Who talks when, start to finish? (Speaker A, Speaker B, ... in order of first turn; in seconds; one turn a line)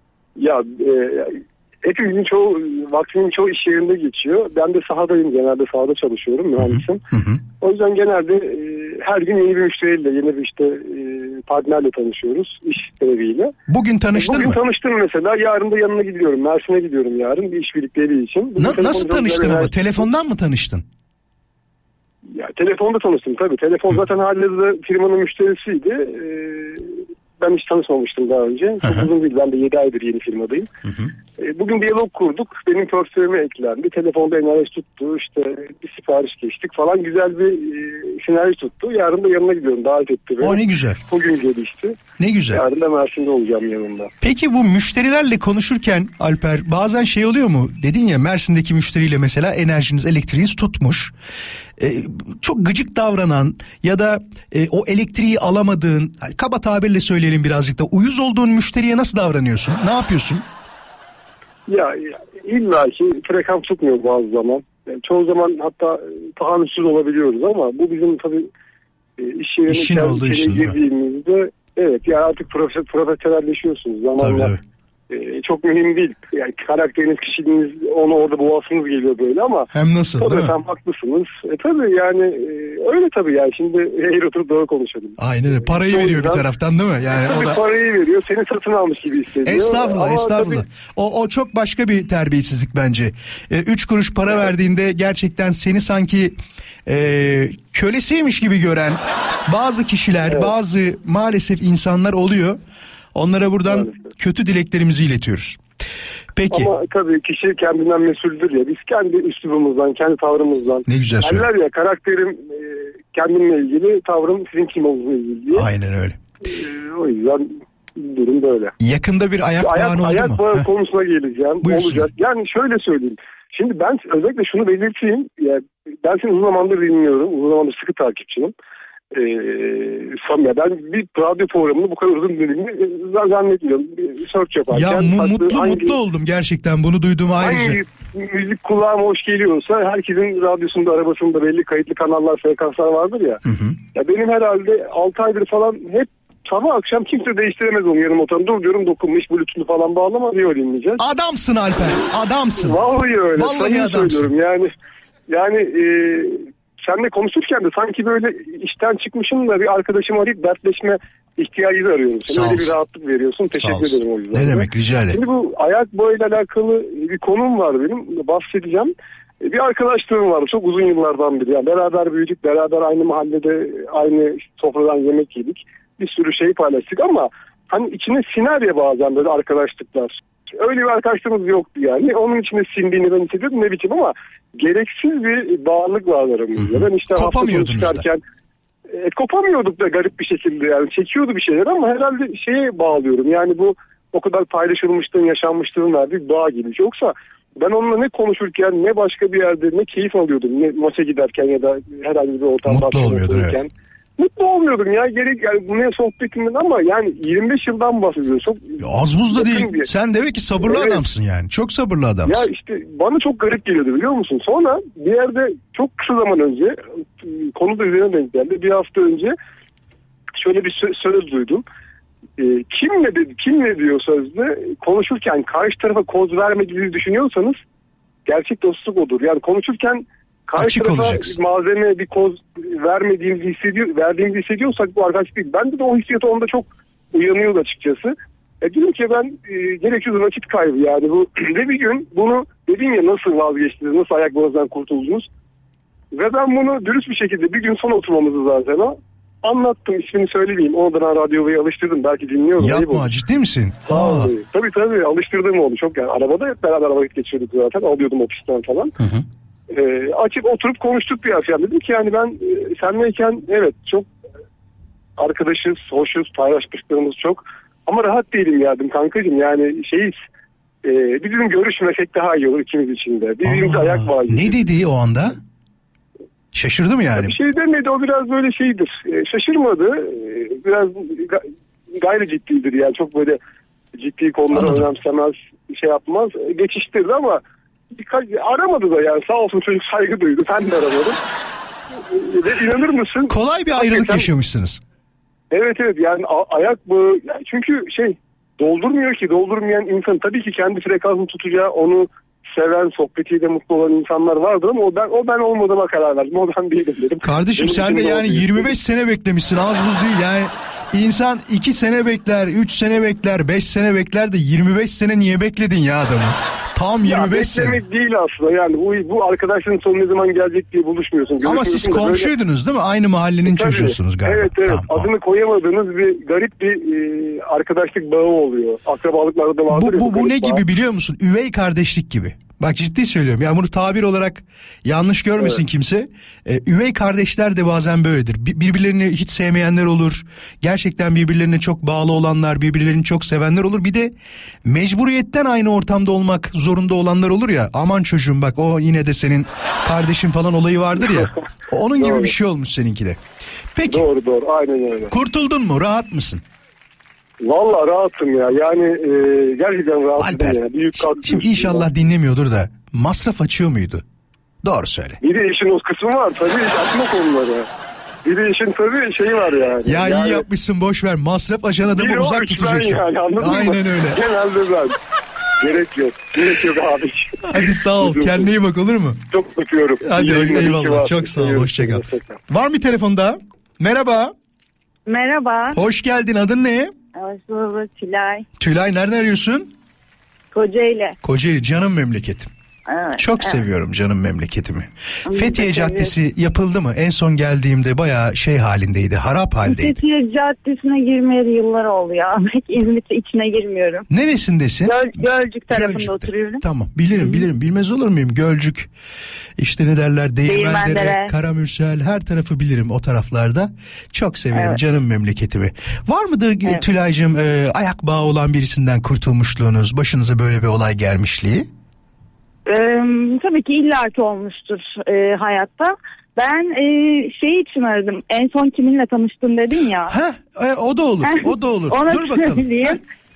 Speaker A: 0.4-7.0
Speaker B: 6.6-7.4
Speaker A: 7.6-13.5
Speaker B: 13.7-14.6
Speaker A: 14.2-20.0
Speaker B: 18.6-20.9
Speaker A: 22.3-30.7
Speaker B: 28.8-29.1
Speaker B: 30.8-31.1
Speaker A: 31.4-42.0
Speaker B: 40.4-41.0
Speaker B: 42.2-42.6
Speaker A: 42.5-44.1
Speaker B: 44.2-51.1
Speaker B: 51.8-60.5
Speaker A: 61.7-68.5
Speaker A: 69.2-74.5
Speaker B: 69.7-70.8
Speaker B: 74.2-74.6
Speaker A: 75.1-86.4
Speaker B: 79.7-80.5
Speaker B: 85.2-87.6
Speaker A: 87.2-90.6
Speaker B: 89.4-102.6
Speaker B: 103.1-105.6
Speaker A: 103.7-103.9
Speaker B: 106.3-106.7
Speaker A: 106.5-115.7
Speaker B: 110.9-111.5
Speaker B: 115.5-116.2
Speaker A: 116.4-118.7
Speaker B: 118.8-120.7
Speaker A: 119.6-128.5
Speaker B: 121.6-122.1
Speaker A: 129.1-135.9
Speaker B: 134.7-137.8
Speaker A: 137.4-143.4
Speaker B: 143.4-143.8
Speaker A: 143.9-151.0
Speaker B: 151.0-152.8
Speaker A: 152.6-154.7
Speaker B: 153.3-154.3
Speaker A: 155.3-188.2
Speaker B: 162.3-162.7
Speaker B: 163.6-165.2
Speaker B: 186.6-188.1
Speaker A: 188.9-209.9
Speaker B: 202.6-203.6
Speaker B: 208.8-212.5
Speaker A: 210.6-211.0
Speaker A: 212.2-219.3
Speaker A: 220.3-221.6
Speaker A: 222.4-227.6
Speaker A: 228.2-245.3
Speaker B: 230.6-231.4
Speaker A: 246.1-253.1
Speaker B: 252.6-254.3
Speaker A: 253.9-258.9
Speaker B: 259.0-259.2
Speaker A: 259.7-264.1
Speaker A: 265.2-270.1
Speaker A: 270.8-274.6
Speaker B: 273.4-275.4
Speaker B: 276.5-277.4
Speaker A: 277.1-283.4
Speaker A: 284.0-291.2
Speaker B: 284.5-284.9
Speaker A: 291.9-294.2
Speaker B: 293.3-294.8
Speaker A: 295.5-308.7
Speaker B: 307.2-317.8
Speaker A: 317.0-322.3
Speaker B: 321.4-325.1
Speaker A: 323.4-330.6
Speaker B: 329.7-344.1
Speaker B: 344.6-353.2
Speaker A: 352.0-352.3
Speaker B: 353.7-354.1
Speaker A: 353.9-355.1
Speaker B: 355.1-356.4
Speaker A: 357.4-361.9
Speaker B: 360.2-364.0
Speaker B: 364.6-365.2
Speaker A: 365.2-367.7
Speaker A: 368.2-370.4
Speaker B: 369.8-374.2
Speaker A: 371.9-375.0
Speaker A: 375.6-377.4
Speaker B: 377.4-379.2
Speaker A: 378.0-378.5
Speaker A: 379.3-382.4
Speaker B: 380.0-384.3
Speaker C: 385.1-385.8
Speaker B: 385.7-386.9
Speaker C: 387.1-388.4
Speaker B: 388.6-389.7
Speaker C: 390.5-391.1
Speaker B: 391.2-392.5
Speaker C: 392.9-393.6
Speaker B: 393.2-400.0
Speaker C: 395.3-396.1
Speaker C: 399.6-404.1
Speaker B: 404.1-408.9
Speaker C: 404.8-406.6
Speaker C: 407.2-407.4
Speaker B: 409.6-421.7
Speaker C: 410.4-411.3
Speaker C: 414.5-414.8
Speaker C: 422.6-430.2
Speaker B: 430.1-433.0
Speaker C: 431.2-433.0